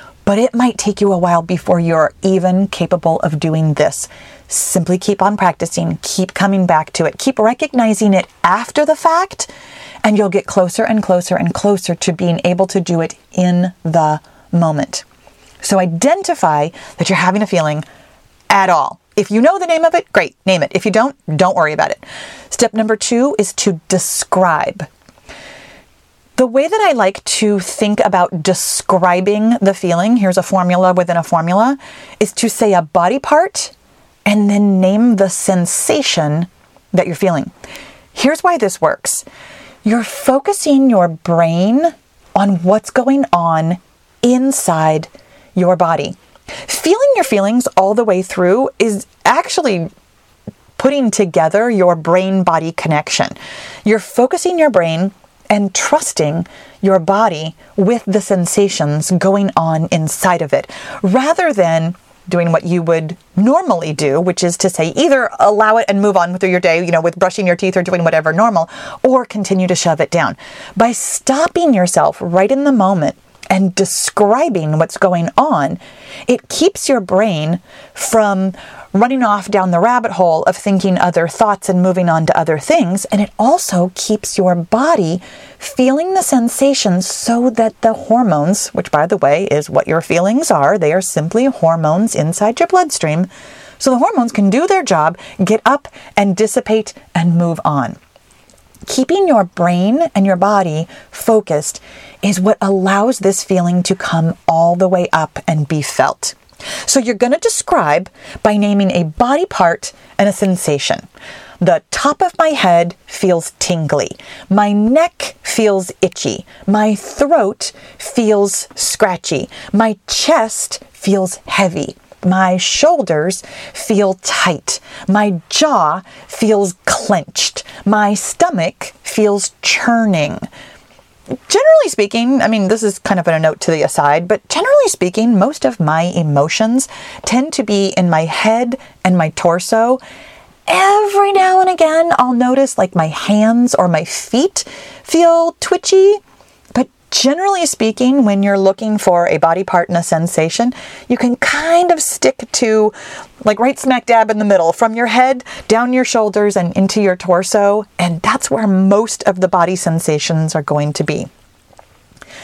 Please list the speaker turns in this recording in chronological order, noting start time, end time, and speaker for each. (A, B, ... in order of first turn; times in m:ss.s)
0:00.3-0:09.5 A
0:10.0-0:15.0 A
0:15.6-0:17.8 A
0:18.5-0:24.9 A
0:26.4-0:33.7 A
0:34.3-0:37.5 A
0:38.1-0:39.2 A
0:39.8-0:49.9 A
0:50.8-1:38.0 A
1:38.9-1:51.1 A
1:51.6-2:10.5 A
2:11.5-2:20.0 A
2:20.7-2:26.2 A
2:26.8-2:41.3 A